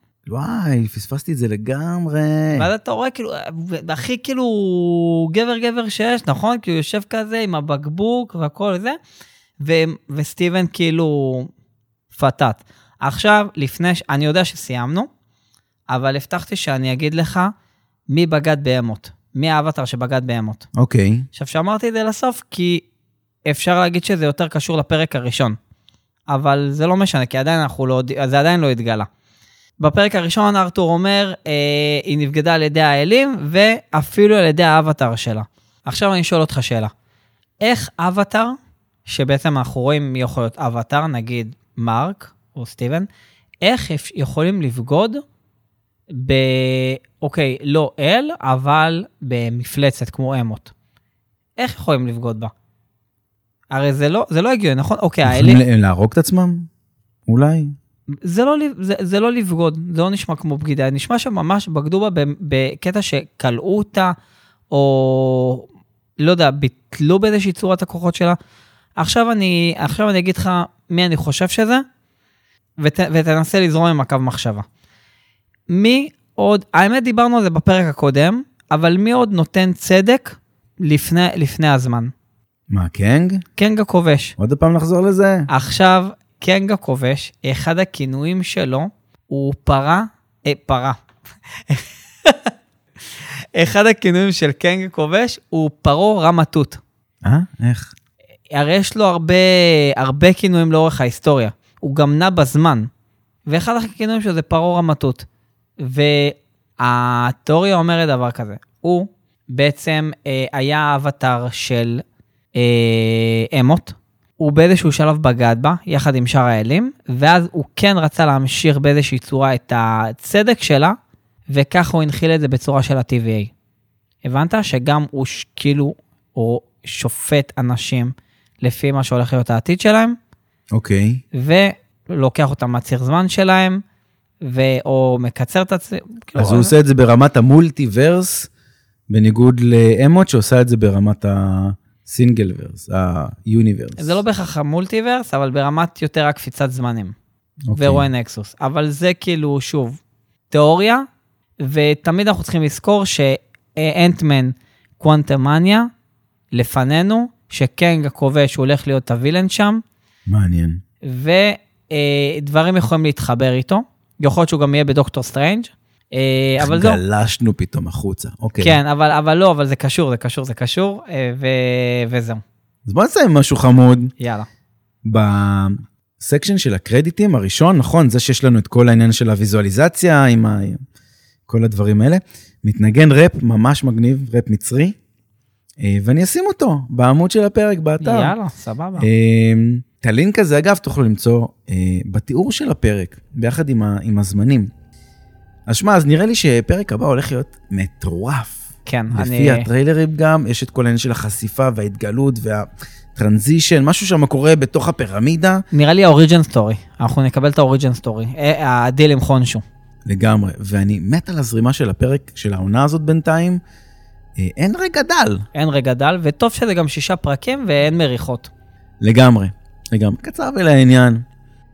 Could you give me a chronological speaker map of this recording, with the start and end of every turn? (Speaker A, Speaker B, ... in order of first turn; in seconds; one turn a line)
Speaker A: 0.3-2.7
Speaker B: 2.5-9.0
Speaker B: 9.6-11.5
Speaker B: 12.1-15.1
Speaker B: 15.9-17.5
Speaker B: 18.1-20.7
Speaker A: 20.8-21.3
Speaker B: 21.3-22.9
Speaker B: 23.5-25.6
Speaker B: 26.3-29.1
Speaker B: 29.8-36.9
Speaker B: 37.6-38.5
Speaker B: 39.1-43.1
Speaker B: 43.6-45.2
Speaker B: 46.1-50.7
Speaker B: 51.6-52.5
Speaker B: 53.7-55.6
Speaker A: 55.2-56.7
Speaker A: 57.3-57.7
Speaker B: 58.1-64.1
Speaker B: 64.7-65.7
Speaker B: 66.2-68.4
Speaker B: 69.0-71.8
Speaker B: 72.8-74.7
Speaker B: 75.7-82.1
Speaker A: 82.7-83.5
Speaker B: 83.6-84.4
Speaker A: 84.4-85.5
Speaker B: 85.5-91.0
Speaker B: 91.6-92.5
Speaker B: 93.2-96.8
Speaker A: 97.2-97.9
Speaker B: 98.5-102.9
Speaker B: 103.5-105.2
Speaker B: 105.8-112.0
Speaker B: 112.5-121.0
Speaker B: 121.5-123.5
Speaker B: 124.2-130.2
Speaker A: 130.7-131.2
Speaker B: 131.3-133.8
Speaker B: 134.4-136.7
Speaker A: 136.4-138.5
Speaker A: 139.1-144.2
Speaker B: 144.0-147.2
Speaker A: 147.7-148.1
Speaker B: 147.8-150.0
Speaker B: 150.5-151.0
Speaker B: 151.6-155.9
Speaker B: 156.5-159.8
Speaker A: 160.3-160.8
Speaker B: 161.0-167.0
Speaker A: 166.6-168.8
Speaker B: 168.6-172.4
Speaker A: 172.9-174.1
Speaker B: 174.2-174.5
Speaker A: 175.1-180.8
Speaker A: 181.5-185.0
Speaker A: 185.8-188.3
Speaker B: 188.0-189.1
Speaker A: 189.0-194.7
Speaker A: 195.7-205.6
Speaker B: 198.9-199.7
Speaker B: 205.7-209.6
Speaker A: 210.1-213.6
Speaker A: 214.4-215.5
Speaker B: 215.5-218.5
Speaker A: 219.0-221.2